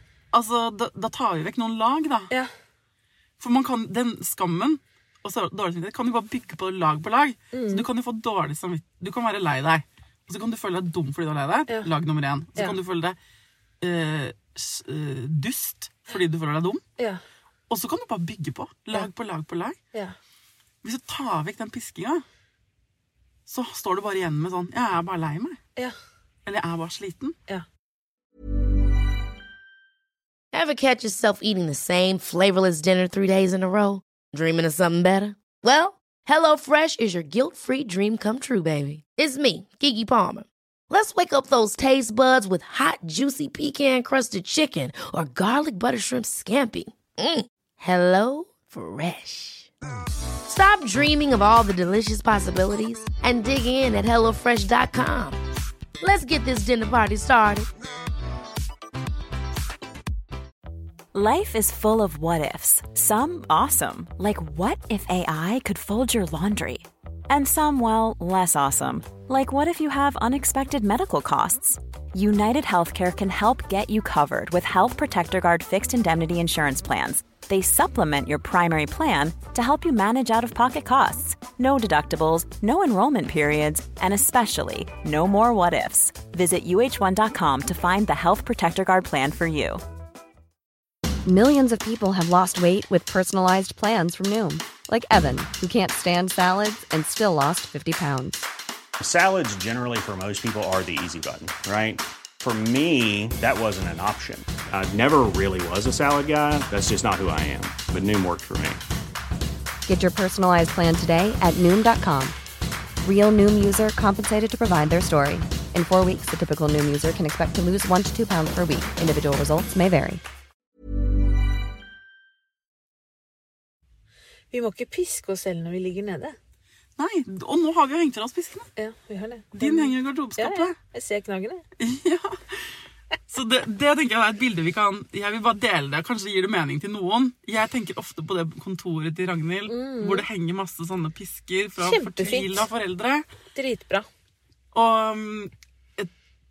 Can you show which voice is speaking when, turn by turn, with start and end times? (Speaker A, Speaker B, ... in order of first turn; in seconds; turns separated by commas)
Speaker A: 0.3-2.3, Speaker A: 3.4-13.2, Speaker B: 7.5-7.9, Speaker A: 13.8-16.8, Speaker A: 17.7-19.8, Speaker A: 20.8-22.2, Speaker A: 23.5-25.6, Speaker A: 26.5-27.4, Speaker C: 30.5-49.7, Speaker C: 50.5-55.4, Speaker C: 56.0-57.7, Speaker D: 61.1-89.8, Speaker E: 91.2-98.5, Speaker F: 99.0-108.8, Speaker E: 109.9-112.3, Speaker E: 113.0-120.2, Speaker B: 124.5-126.4, Speaker A: 127.0-128.7, Speaker B: 128.8-131.7, Speaker A: 129.5-130.8, Speaker A: 131.8-143.3, Speaker B: 139.7-140.3, Speaker B: 141.8-142.7, Speaker B: 143.6-144.1, Speaker A: 144.7-146.1